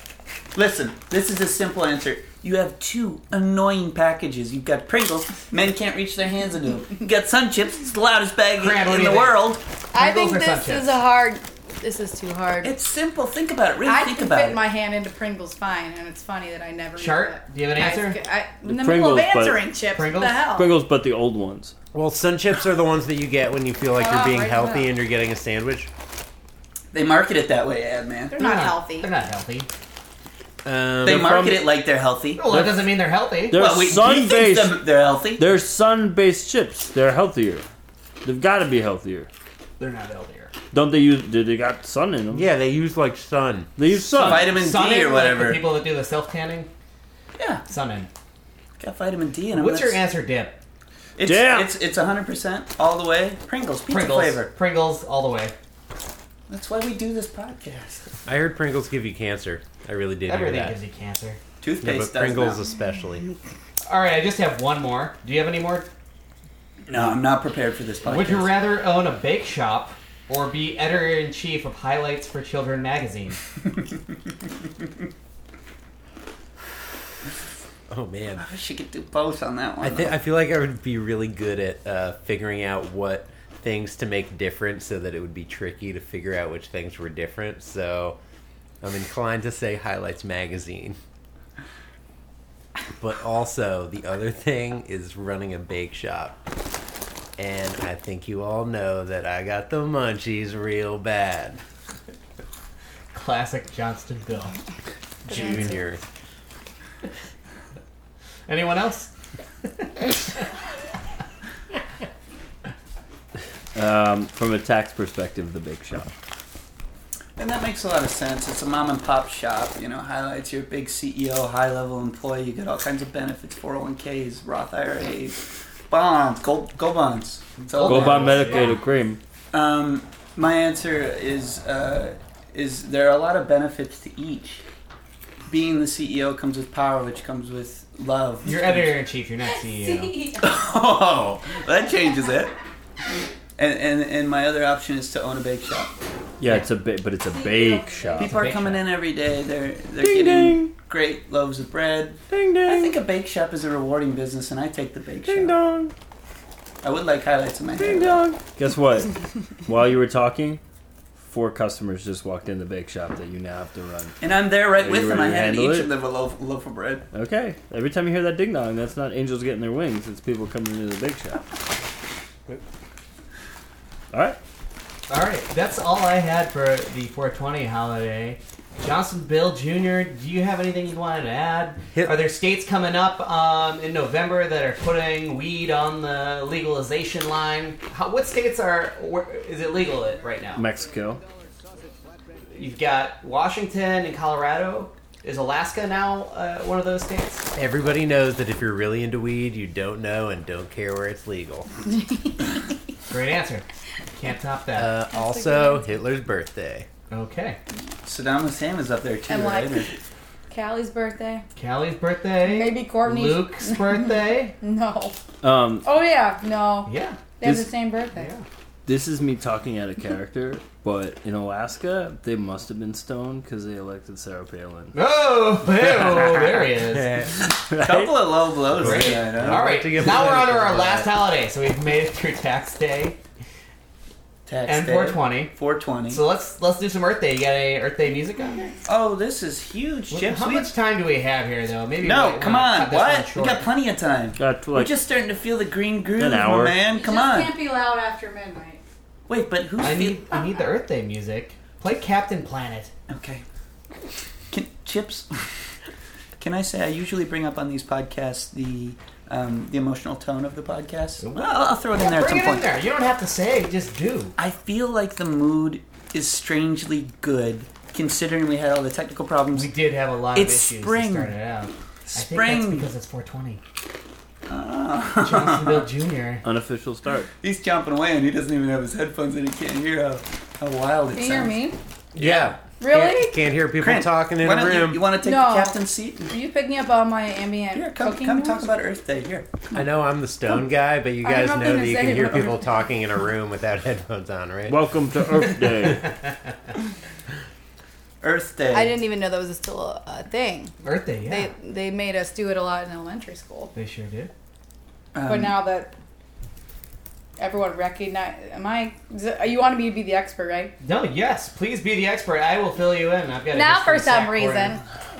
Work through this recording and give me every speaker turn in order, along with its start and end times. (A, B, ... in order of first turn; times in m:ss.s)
0:00.5-0:09.6 A
0:08.6-0:11.0 B
0:09.9-0:12.7 C
0:12.6-0:14.6 A
0:13.8-0:20.7 C
0:17.0-0:18.2 B
0:18.6-0:19.7 D
0:19.9-0:20.4 B
0:20.5-0:21.7 D
0:21.9-0:25.9 E
0:23.9-0:25.0 C
0:26.9-0:28.4 A
0:28.3-0:29.1 C
0:28.4-0:29.7 B
0:30.6-0:31.4 E
0:31.0-0:32.5 A
0:31.0-0:31.7 D
0:32.4-0:33.6 B
0:32.5-0:32.8 D
0:33.5-0:37.7 D
0:33.5-0:35.5 A
0:38.2-0:39.3 D
0:39.8-0:40.5 B
0:40.7-0:42.5 D
0:42.3-0:43.7 E
0:43.8-0:44.5 D
0:44.2-0:46.7 B
0:44.2-0:45.6 A
0:47.4-0:47.6 A
0:47.7-0:48.1 B
0:48.8-0:50.0 A
0:49.5-0:50.6 B
0:51.2-0:54.5 A
0:51.2-0:51.7 D
0:53.9-0:55.5 B
0:56.5-0:58.1 A
0:58.3-1:00.8 E
1:00.3-1:01.4 B
1:01.6-1:02.6 A
1:01.8-1:03.3 E
1:03.9-1:05.9 B
1:06.9-1:08.6 A
1:08.1-1:13.4 B
1:17.9-1:18.5 E
1:18.4-1:20.2 A
1:19.8-1:28.2 E
1:28.8-1:31.0 E
1:33.0-1:36.4 E
1:37.4-1:41.6 E
1:43.1-1:44.6 B
1:45.2-1:45.8 B
1:45.3-1:46.0 E
1:45.3-1:45.8 C
1:48.5-1:49.1 B
1:49.8-1:50.1 B
1:53.8-1:56.1 D
1:57.4-2:08.8 A
2:07.7-2:08.8 B
2:07.8-2:09.2 D
2:09.5-2:14.6 A
2:15.5-2:19.0 A
2:18.4-2:20.2 B
2:19.6-2:20.7 C
2:20.4-2:22.5 A
2:23.6-2:25.9 A
2:26.4-2:28.4 D
2:27.2-2:28.4 C
2:28.2-2:28.9 B
2:28.2-2:35.6 A
2:30.0-2:30.7 D
2:32.3-2:33.0 D
2:35.2-2:35.9 D
2:36.8-2:38.3 A
2:37.8-2:40.6 D
2:41.2-2:44.2 D
2:44.2-2:47.1 A
2:44.8-2:45.9 D
2:47.1-2:51.4 D
2:54.1-2:54.4 D
2:55.1-3:10.7 B
3:01.9-3:02.2 E
3:10.6-3:11.2 D
3:12.5-3:17.5 B
3:17.6-3:21.7 E
3:21.9-3:22.4 C
3:23.1-3:24.9 B
3:24.8-3:26.9 E
3:25.1-3:25.9 C
3:27.1-3:27.6 B
3:28.0-3:29.9 A
3:29.3-3:29.9 C
3:30.5-3:31.4 C
3:31.6-3:34.6 B
3:32.4-3:35.2 C
3:35.4-3:35.9 D
3:35.8-3:38.3 C
3:36.9-3:37.3 B
3:37.4-3:37.7 D
3:38.2-3:38.4 B
3:38.9-3:45.0 D
3:44.9-3:47.2 B
3:46.8-3:47.5 E
3:47.7-3:48.3 D
3:47.8-3:50.1 A
3:48.7-3:51.1 E
3:48.8-3:53.2 B
3:54.5-3:56.2 A
3:54.7-3:55.6 B
3:56.1-3:58.7 B
3:58.9-4:00.7 A
4:00.1-4:03.7 B
4:02.0-4:07.6 A
4:04.4-4:05.0 D
4:06.2-4:06.8 D
4:06.8-4:08.8 C
4:09.3-4:10.2 A
4:09.8-4:12.9 B
4:13.1-4:13.4 A
4:14.5-4:15.3 A
4:16.4-4:22.7 A
4:21.2-4:24.4 B
4:24.4-4:29.7 A
4:29.5-4:33.6 B
4:30.3-4:31.3 A
4:32.1-4:32.9 A
4:34.5-4:35.9 A
4:35.2-4:36.4 B
4:36.4-4:37.3 D
4:37.4-4:41.6 A
4:41.1-4:41.8 C
4:42.2-4:45.1 E
4:42.2-4:42.5 A
4:42.8-4:43.4 C
4:43.8-4:46.3 A
4:45.2-4:48.8 C
4:47.7-4:49.8 A
4:49.7-4:54.8 E
4:51.2-4:52.9 C
4:54.7-4:56.1 D
4:55.6-4:56.3 B
4:58.2-4:59.0 A
4:58.7-5:03.7 C
5:00.8-5:01.5 B
5:03.7-5:04.3 B
5:05.2-5:05.6 A
5:05.3-5:05.9 C
5:07.4-5:10.7 C
5:10.8-5:14.8 B
5:13.5-5:14.8 C